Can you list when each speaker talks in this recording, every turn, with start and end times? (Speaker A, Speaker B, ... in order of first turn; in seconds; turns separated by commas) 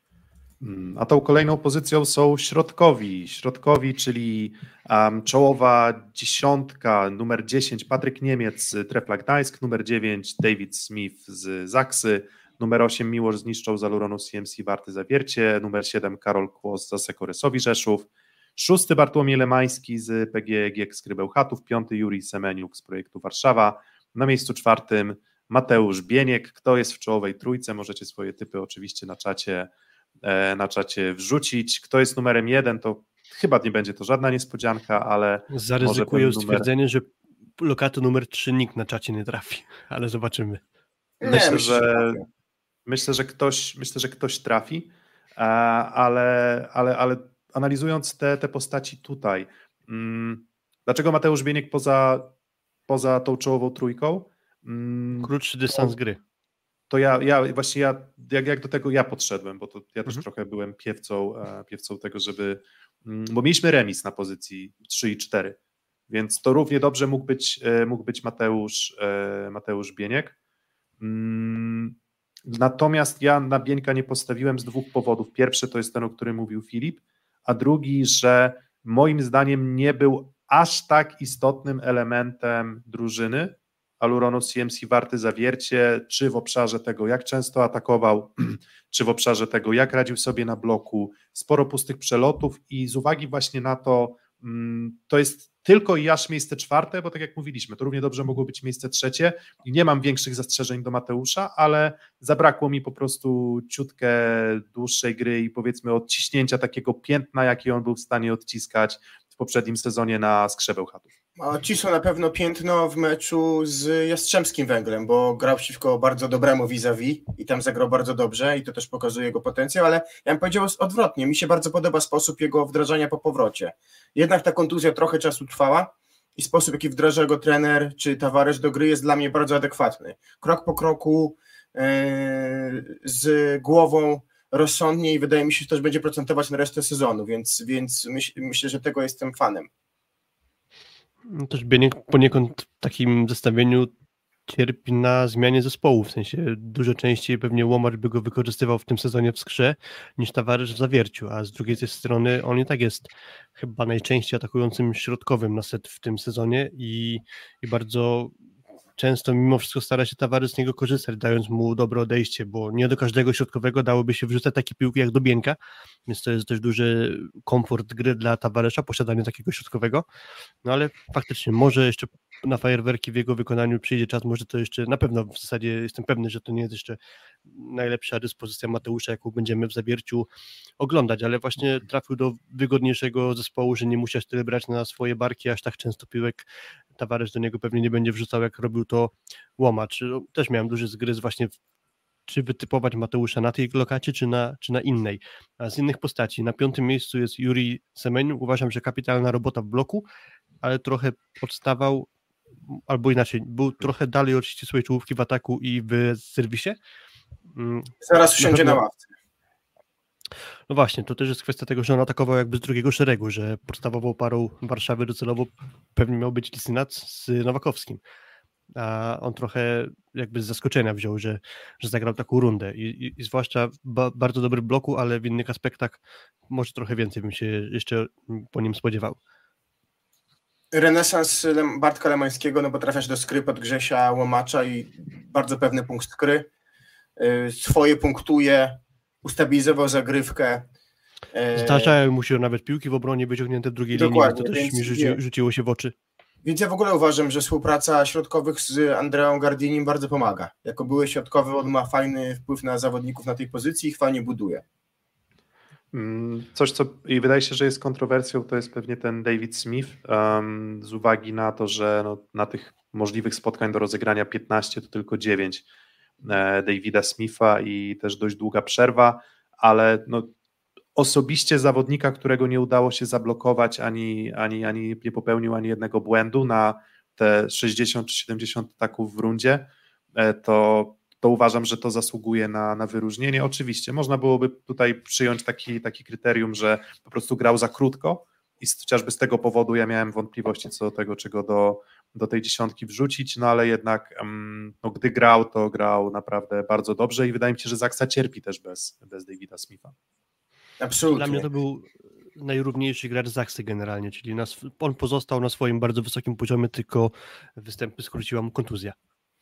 Speaker A: 0.6-29.7, Speaker A: 30.2-36.7, Speaker B: 35.5-40.6, Speaker C: 41.2-42.2, Speaker A: 41.2-42.2, Speaker A: 42.9-52.3, Speaker A: 52.9-55.9, Speaker B: 55.2-56.2, Speaker A: 56.9-65.6, Speaker A: 66.1-70.3, Speaker A: 71.0-111.1, Speaker C: 111.4-139.7, Speaker B: 141.3-143.9, Speaker B: 144.5-158.3, Speaker B: 159.0-165.6, Speaker B: 166.1-170.0, Speaker B: 170.6-180.3, Speaker B: 180.8-191.5, Speaker B: 192.3-200.1, Speaker B: 200.6-202.1, Speaker B: 202.7-206.8, Speaker B: 207.5-208.8, Speaker C: 208.0-209.1, Speaker B: 210.7-218.0, Speaker B: 218.8-229.2, Speaker C: 230.7-236.5, Speaker C: 237.2-240.7, Speaker C: 241.3-241.9, Speaker B: 241.5-245.9, Speaker C: 243.9-245.2, Speaker C: 246.4-254.6, Speaker A: 255.9-265.6, Speaker A: 266.2-270.3, Speaker A: 270.9-299.9, Speaker C: 300.8-301.4, Speaker B: 301.1-308.9